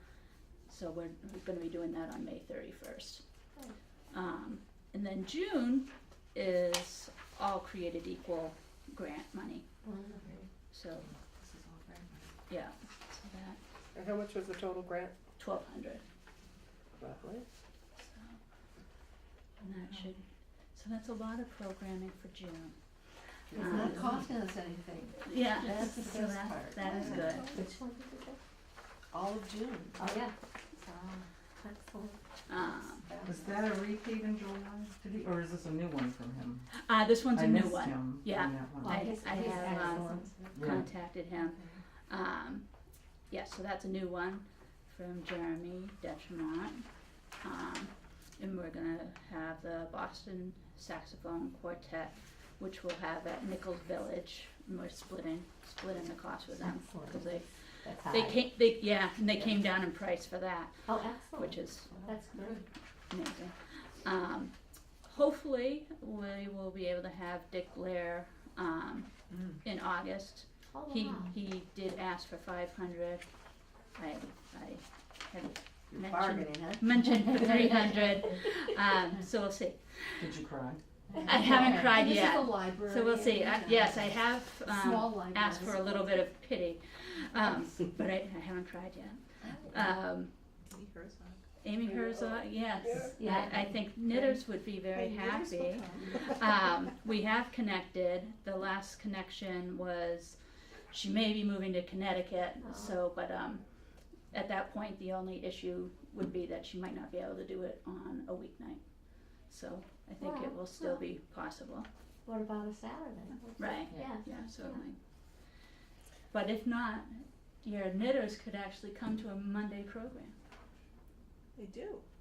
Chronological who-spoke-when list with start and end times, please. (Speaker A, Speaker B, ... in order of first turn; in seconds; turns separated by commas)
Speaker A: 0.7-3.2, Speaker A: 4.1-9.6, Speaker B: 9.8-10.5, Speaker A: 10.7-11.1, Speaker C: 11.0-12.2, Speaker A: 12.5-13.6, Speaker D: 13.9-15.1, Speaker A: 15.4-16.0, Speaker D: 17.0-17.4, Speaker A: 18.0-18.4, Speaker A: 19.6-22.8, Speaker A: 23.5-24.1, Speaker E: 23.5-27.7, Speaker A: 25.2-27.5, Speaker B: 27.4-28.4, Speaker E: 29.1-30.1, Speaker B: 29.9-30.3, Speaker E: 30.8-31.2, Speaker B: 31.6-32.2, Speaker A: 32.5-33.0, Speaker E: 33.0-33.5, Speaker C: 33.2-36.7, Speaker A: 36.7-42.6, Speaker C: 37.2-39.2, Speaker B: 38.8-40.5, Speaker C: 40.5-40.9, Speaker A: 43.3-46.9, Speaker A: 47.4-61.9, Speaker B: 56.6-58.6, Speaker B: 60.8-62.6, Speaker A: 63.1-73.3, Speaker B: 70.7-71.3, Speaker A: 73.9-80.3, Speaker E: 75.9-77.9, Speaker C: 80.2-80.8, Speaker A: 81.2-90.3, Speaker E: 81.3-86.2, Speaker F: 90.7-91.4, Speaker A: 91.6-103.7, Speaker D: 91.8-93.1, Speaker B: 93.2-93.8, Speaker F: 94.0-96.4, Speaker B: 102.6-102.9, Speaker A: 104.3-111.9, Speaker B: 110.2-111.0, Speaker B: 112.2-114.8, Speaker A: 113.6-115.0, Speaker A: 116.3-120.3, Speaker F: 121.5-122.0